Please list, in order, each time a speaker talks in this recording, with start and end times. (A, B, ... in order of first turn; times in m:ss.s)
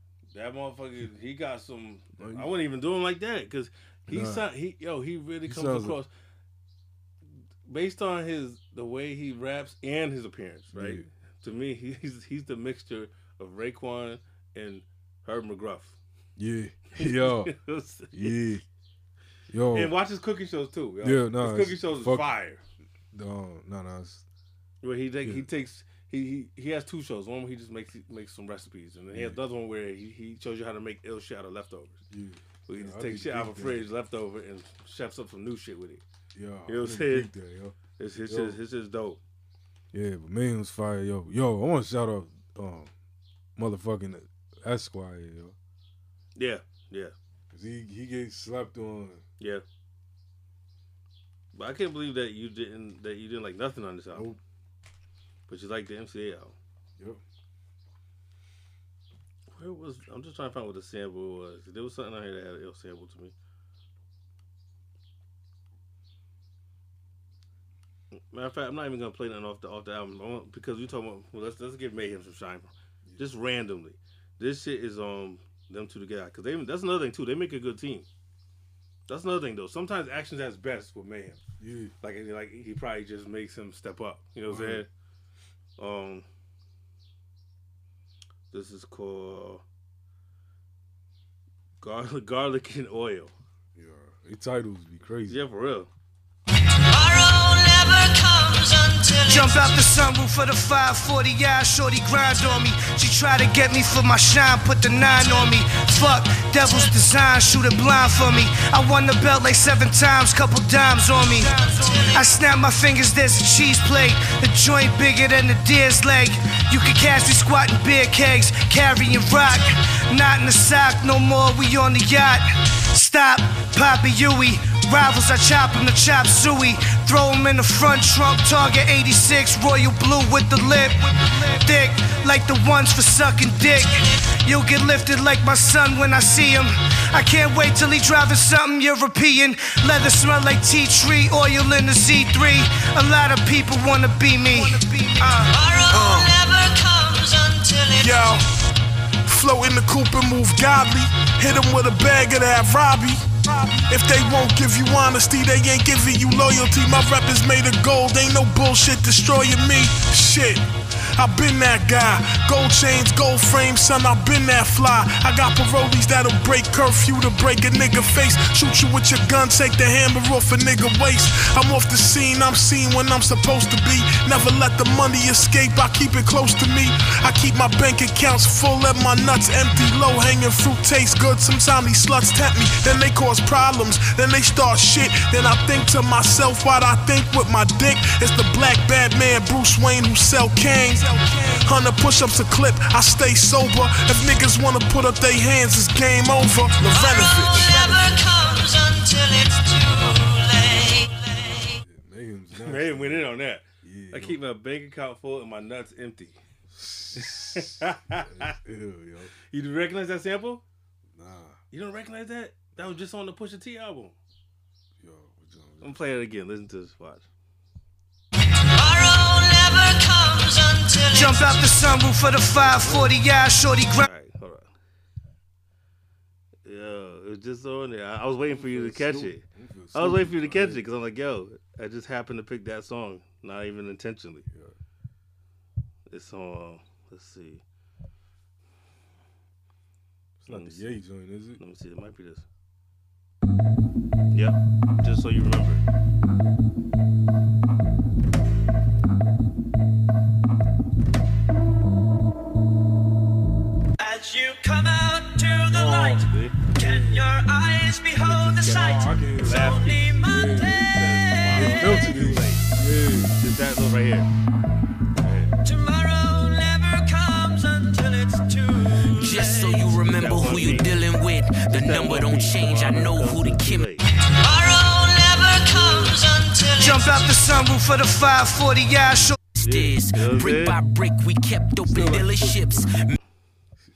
0:00.3-0:06.1 A
0:02.2-0:02.5 B
0:04.1-0:04.5 B
0:05.4-0:06.0 B
0:07.6-0:16.0 A
0:10.7-0:11.0 B
0:16.4-0:17.5 B
0:17.0-0:18.4 A
0:18.1-0:18.6 B
0:19.5-0:20.0 B
0:19.7-0:22.6 A
0:21.0-0:22.3 B
0:23.1-0:24.2 B
0:24.8-0:32.0 A
0:25.2-0:25.5 B
0:29.1-0:29.4 B
0:32.1-0:33.9 B
0:32.7-0:36.0 A
0:36.3-0:38.6 B
0:36.7-0:37.3 A
0:38.0-0:39.2 A
0:39.9-0:42.9 B
0:43.6-0:45.6 B
0:46.4-0:47.1 A
0:47.5-0:49.2 B
0:51.5-0:54.3 A
0:54.1-0:54.4 B
0:55.5-0:56.5 A
0:59.5-1:03.3 A
1:08.3-1:18.0 A
1:19.1-1:21.4 A
1:21.6-1:21.9 B
1:22.0-1:24.9 A
1:24.5-1:24.8 B
1:25.8-1:26.2 A
1:28.5-1:29.6 A
1:31.8-1:33.3 A
1:33.7-1:35.4 B
1:35.3-1:35.9 A
1:36.9-1:39.8 C
1:39.3-2:25.5 D
1:51.6-1:52.4 C
2:25.2-2:28.4 C
2:25.9-2:26.3 E
2:28.0-2:28.4 E
2:29.2-3:17.9 E
3:16.8-3:21.8 C
3:21.8-3:23.3 B
3:22.5-3:26.4 A
3:23.8-3:24.4 B
3:26.7-3:29.3 B
3:27.1-3:28.5 A
3:29.5-3:30.6 A
3:31.1-3:31.6 B
3:31.7-3:34.2 A
3:35.0-3:36.0 B
3:35.8-3:37.2 A
3:38.7-3:41.6 C
3:41.1-3:44.1 D
3:42.5-3:43.2 B
3:44.0-3:44.7 A
3:46.6-3:54.4 A
3:48.5-3:50.8 B
3:54.5-3:54.8 B
3:56.1-3:57.6 A
4:00.4-4:01.6 B
4:00.5-4:00.9 A
4:01.6-4:02.4 A
4:04.3-4:05.8 A
4:14.0-4:22.3 C
4:15.7-4:16.6 A
4:16.8-4:17.3 B
4:18.2-4:21.0 B
4:18.4-4:22.7 A
4:21.5-4:23.4 B
4:23.4-4:24.3 A
4:25.2-4:25.6 A
4:25.6-4:30.0 C
4:29.1-4:33.9 F
4:30.0-4:31.0 A
4:31.7-4:34.0 A
4:34.3-4:37.3 C
4:36.8-4:39.4 D
4:39.5-4:43.2 F
4:39.6-4:40.8 A
4:41.8-4:43.1 B